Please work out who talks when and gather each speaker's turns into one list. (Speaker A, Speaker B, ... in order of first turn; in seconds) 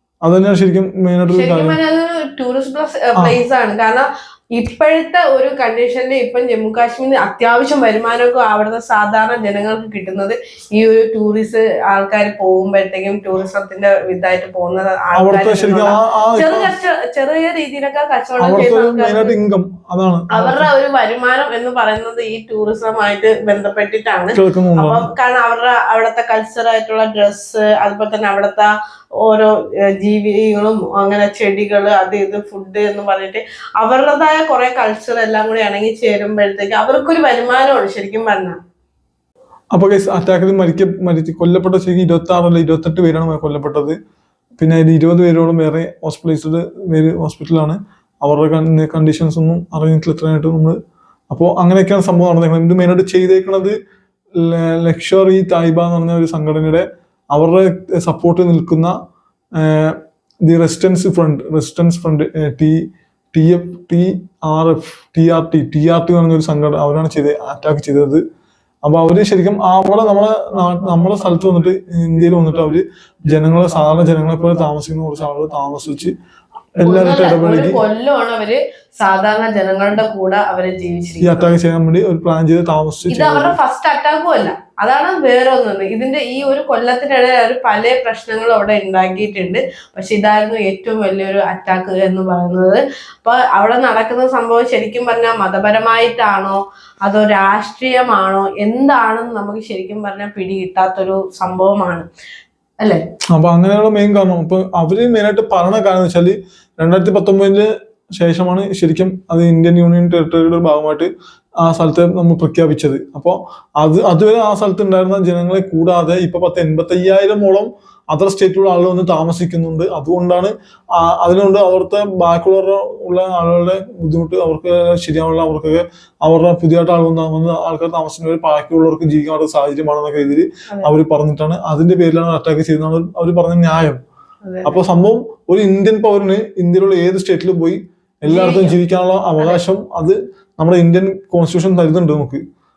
Speaker A: 0.2-1.8, 15.2-16.7, 18.4-20.7, 24.3-25.1, 39.7-44.0, 44.6-50.8, 51.3-53.8, 54.4-58.9, 59.6-62.8, 63.3-68.2, 68.8-76.1, 76.8-77.8, 81.2-83.6, 103.3-111.1, 111.6-134.0, 134.6-142.4
Speaker B: 1.3-19.3, 20.3-28.7, 29.2-38.5, 76.8-81.5, 83.1-102.1, 134.4-134.8, 138.3-138.8